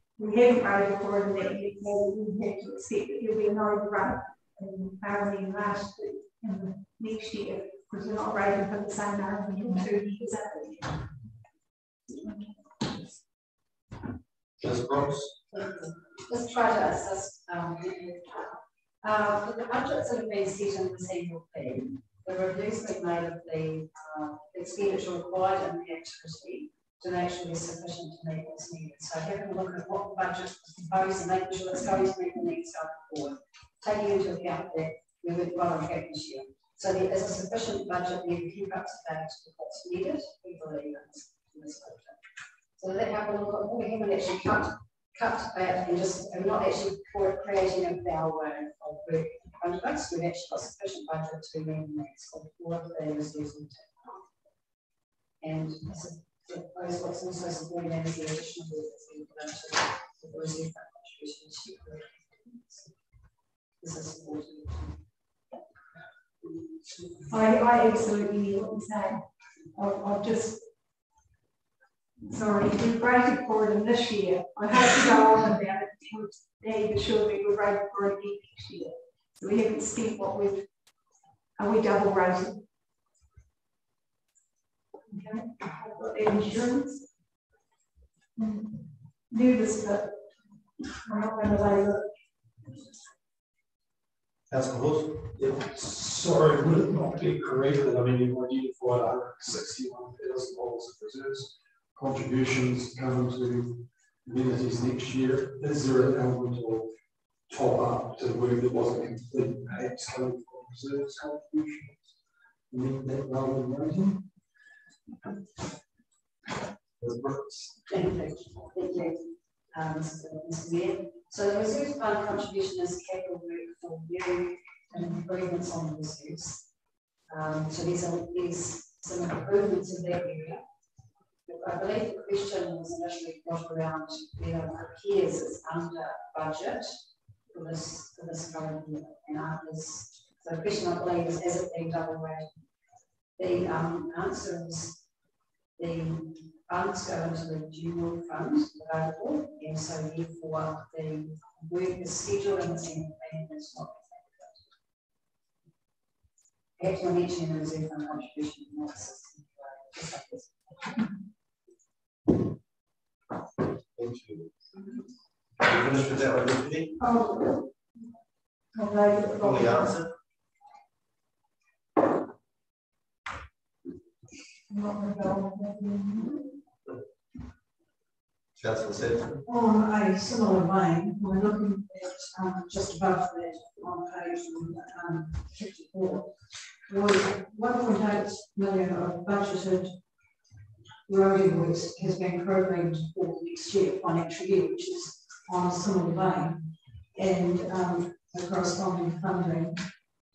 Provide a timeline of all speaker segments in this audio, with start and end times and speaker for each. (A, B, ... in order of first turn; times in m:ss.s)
0:00.2-0:11.0 A
0:14.6-0:15.3 B
0:15.5-0:42.2 C
0:42.8-0:54.2 C
0:55.4-1:02.9 C
1:03.8-1:05.0 C
1:06.4-1:07.3 C
1:07.3-1:09.2 A
1:09.8-1:10.6 A
1:12.3-1:20.6 A
1:21.6-1:22.6 A
1:25.1-1:27.0 A
1:28.4-1:28.8 A
1:29.3-1:30.1 A
1:31.0-1:32.1 A
1:34.5-1:35.2 B
1:35.4-1:46.9 D
1:47.5-1:52.0 D
1:52.7-1:54.2 D
1:57.0-1:57.7 B
1:57.9-2:06.6 C
2:07.3-2:10.6 C
2:11.5-2:17.0 C
2:17.5-2:22.6 C
2:23.4-2:25.0 C
2:25.8-2:34.6 C
2:36.8-2:41.0 C
2:44.0-2:44.5 B
2:45.6-2:47.0 B
2:47.0-2:47.6 A
2:48.8-2:50.0 A
2:49.2-2:50.1 B
2:54.7-2:56.5 A
2:58.6-2:59.4 B
2:59.5-3:06.3 E
3:06.8-3:10.0 E
3:11.1-3:16.6 E
3:17.2-3:19.8 E